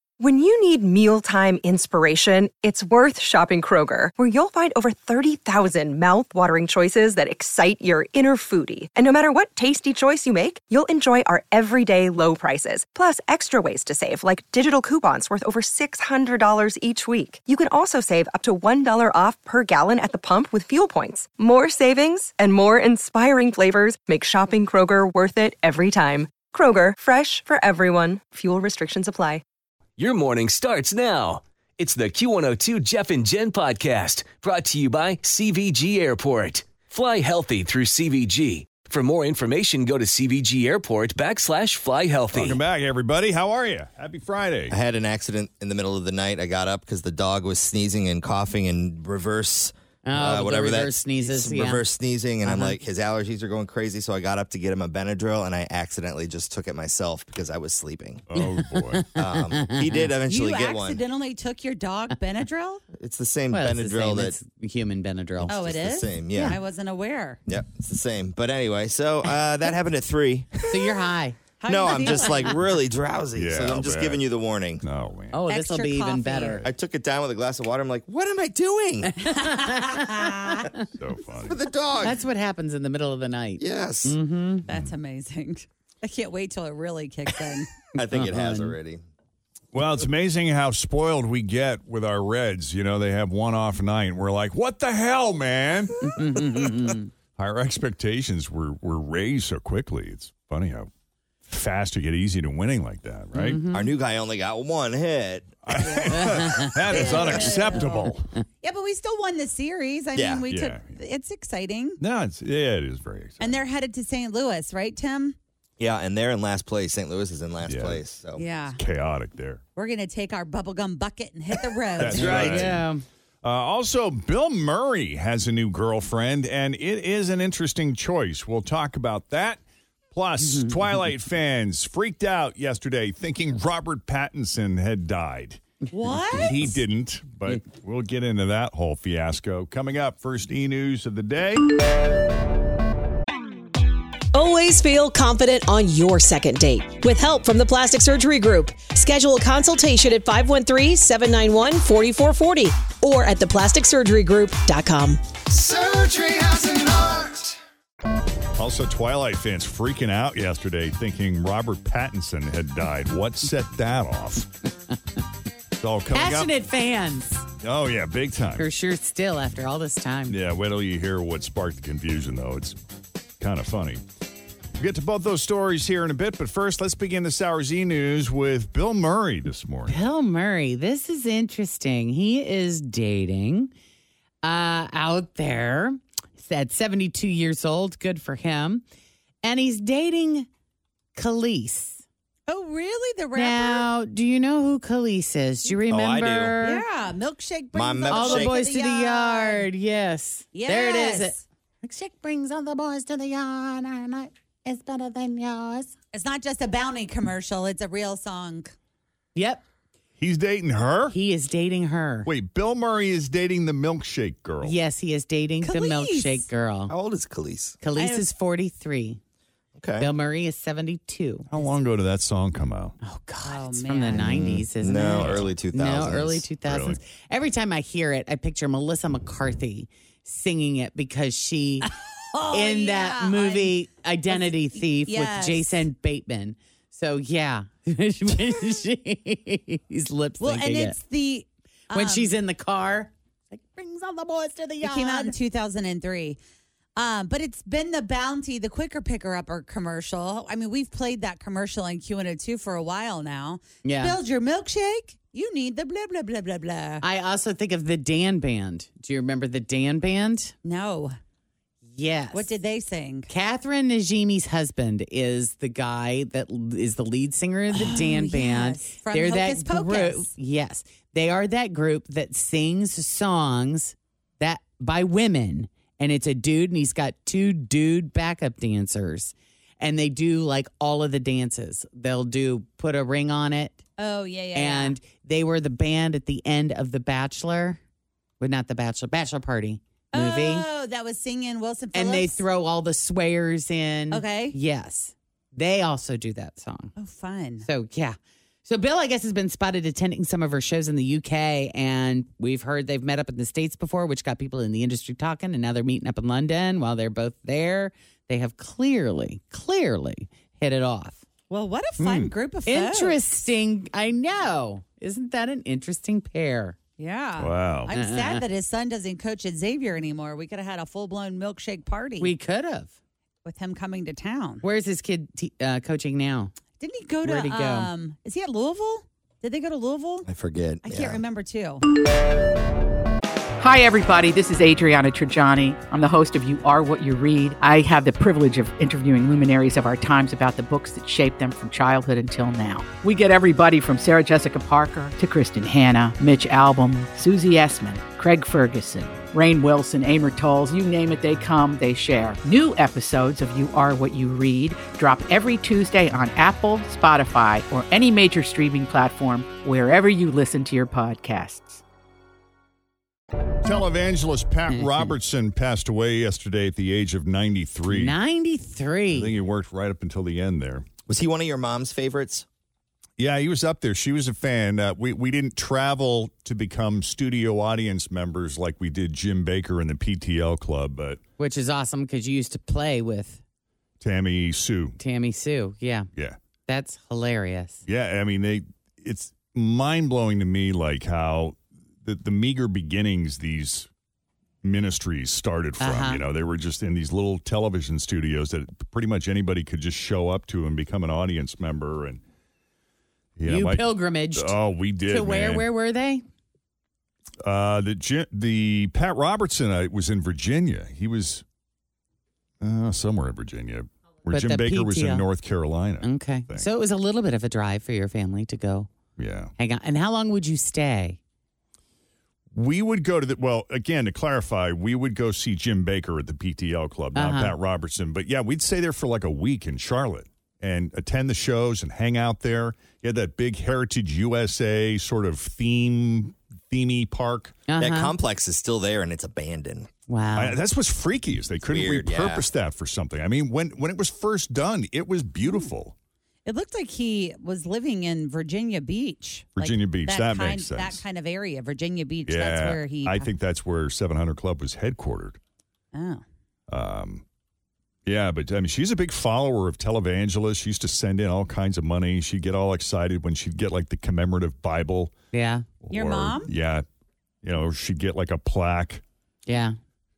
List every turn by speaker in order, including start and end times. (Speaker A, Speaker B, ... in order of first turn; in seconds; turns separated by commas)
Speaker A: 0.2-29.4, Speaker B: 30.0-42.6, Speaker C: 42.3-44.8, Speaker D: 44.7-58.2, Speaker E: 50.0-51.8, Speaker E: 52.4-52.8, Speaker C: 58.3-59.1, Speaker E: 58.4-60.1, Speaker D: 59.1-61.0, Speaker F: 60.3-62.8, Speaker D: 63.0-64.3, Speaker E: 63.5-65.5, Speaker D: 65.5-66.6, Speaker F: 65.5-67.4, Speaker D: 67.5-70.6, Speaker E: 70.7-71.4, Speaker F: 71.6-72.6, Speaker D: 71.7-74.8, Speaker C: 73.3-74.2, Speaker C: 74.8-75.4, Speaker E: 75.3-76.7, Speaker F: 75.5-76.6, Speaker D: 76.6-79.2, Speaker E: 79.1-80.9, Speaker F: 80.0-80.2, Speaker C: 81.0-81.6, Speaker D: 81.4-82.2, Speaker E: 82.0-84.6, Speaker D: 83.6-84.2, Speaker F: 84.7-87.7, Speaker D: 88.0-89.0, Speaker E: 88.1-88.8, Speaker C: 89.7-96.7, Speaker E: 96.0-97.1, Speaker C: 97.4-100.9, Speaker C: 101.5-103.6, Speaker E: 103.3-103.9, Speaker D: 103.7-106.0, Speaker C: 105.7-108.3, Speaker F: 105.8-106.2, Speaker E: 106.1-106.7, Speaker F: 106.9-108.1, Speaker D: 107.0-107.5, Speaker F: 108.6-112.0, Speaker D: 110.2-110.4, Speaker C: 110.5-111.0, Speaker C: 112.0-113.6, Speaker F: 113.4-115.4, Speaker D: 115.8-118.5, Speaker C: 117.6-118.0, Speaker F: 118.4-118.8, Speaker C: 118.8-119.6, Speaker F: 119.8-122.5, Speaker C: 122.0-122.9, Speaker E: 122.0-123.0, Speaker D: 122.4-122.8, Speaker C: 123.4-129.6, Speaker C: 130.1-135.6, Speaker E: 130.4-130.8, Speaker F: 135.9-136.6, Speaker C: 136.3-141.7, Speaker G: 144.3-155.2, Speaker C: 155.5-156.0, Speaker C: 158.6-164.5, Speaker C: 165.8-166.5, Speaker E: 166.1-167.5, Speaker C: 167.6-168.7, Speaker E: 168.6-170.4, Speaker C: 170.3-172.8, Speaker C: 173.4-174.0, Speaker C: 174.8-180.0, Speaker E: 179.9-183.7, Speaker E: 184.4-188.8, Speaker E: 189.4-190.5, Speaker E: 191.2-192.0, Speaker F: 192.5-193.9, Speaker E: 193.3-196.8, Speaker D: 195.9-196.6, Speaker F: 196.6-199.7, Speaker D: 197.7-198.6, Speaker E: 198.1-205.9, Speaker F: 200.5-201.4, Speaker F: 206.1-208.7, Speaker E: 209.3-209.6, Speaker C: 210.2-211.2, Speaker E: 211.1-212.3, Speaker C: 212.3-214.8, Speaker E: 214.6-216.9, Speaker F: 215.6-216.5, Speaker D: 216.9-217.8, Speaker E: 217.8-219.2, Speaker F: 218.0-218.3, Speaker D: 219.8-220.1, Speaker E: 220.0-221.5, Speaker C: 221.5-222.9, Speaker E: 223.0-231.9, Speaker F: 223.4-224.4, Speaker D: 224.2-226.4, Speaker C: 225.2-225.5, Speaker C: 226.7-227.0, Speaker F: 231.8-233.8, Speaker E: 232.5-241.0, Speaker F: 234.3-235.8, Speaker F: 240.4-242.3, Speaker E: 241.9-245.3, Speaker F: 244.8-246.4, Speaker F: 247.0-257.0, Speaker E: 253.8-254.2, Speaker E: 257.0-260.5, Speaker F: 260.6-261.2, Speaker E: 261.9-262.5, Speaker F: 262.3-263.3, Speaker E: 263.3-283.8, Speaker F: 267.7-270.3, Speaker F: 284.0-285.0, Speaker E: 284.5-287.8, Speaker E: 288.4-290.7, Speaker F: 290.1-292.4, Speaker E: 291.9-296.9, Speaker F: 294.1-294.6, Speaker F: 297.0-297.7, Speaker E: 297.6-311.2, Speaker F: 311.5-313.2, Speaker C: 312.0-312.3, Speaker E: 312.7-316.8, Speaker F: 317.0-322.3, Speaker C: 317.4-317.9, Speaker E: 317.9-318.4, Speaker E: 322.2-322.9, Speaker F: 323.4-324.6, Speaker E: 324.6-326.5, Speaker F: 326.8-330.3, Speaker E: 327.2-327.9, Speaker D: 330.2-331.2, Speaker F: 330.8-331.8, Speaker H: 333.6-361.8, Speaker C: 363.6-368.1, Speaker E: 364.8-365.1, Speaker E: 367.9-369.3, Speaker C: 369.1-370.9, Speaker D: 371.1-372.5, Speaker C: 373.2-381.2, Speaker E: 381.4-383.4, Speaker C: 384.0-385.0, Speaker E: 385.0-386.1, Speaker E: 386.7-387.8, Speaker C: 387.9-393.9, Speaker C: 394.6-402.2, Speaker E: 395.8-396.2, Speaker C: 403.4-405.7, Speaker E: 403.5-404.6, Speaker E: 405.1-406.2, Speaker C: 407.4-411.4, Speaker C: 412.6-416.7, Speaker E: 414.3-415.2, Speaker E: 416.0-418.9, Speaker C: 419.2-419.5, Speaker E: 419.6-421.2, Speaker C: 422.5-437.6, Speaker E: 427.2-427.6, Speaker E: 437.7-438.1, Speaker D: 437.8-439.9, Speaker E: 440.1-440.6, Speaker C: 440.4-445.9, Speaker D: 441.7-442.4, Speaker F: 446.5-453.3, Speaker C: 449.6-451.0, Speaker C: 452.3-455.4, Speaker F: 455.9-456.2, Speaker C: 456.7-457.2, Speaker C: 458.1-465.1, Speaker E: 465.3-465.6, Speaker C: 465.8-466.9, Speaker F: 465.9-466.5, Speaker C: 467.4-469.0, Speaker E: 469.5-469.8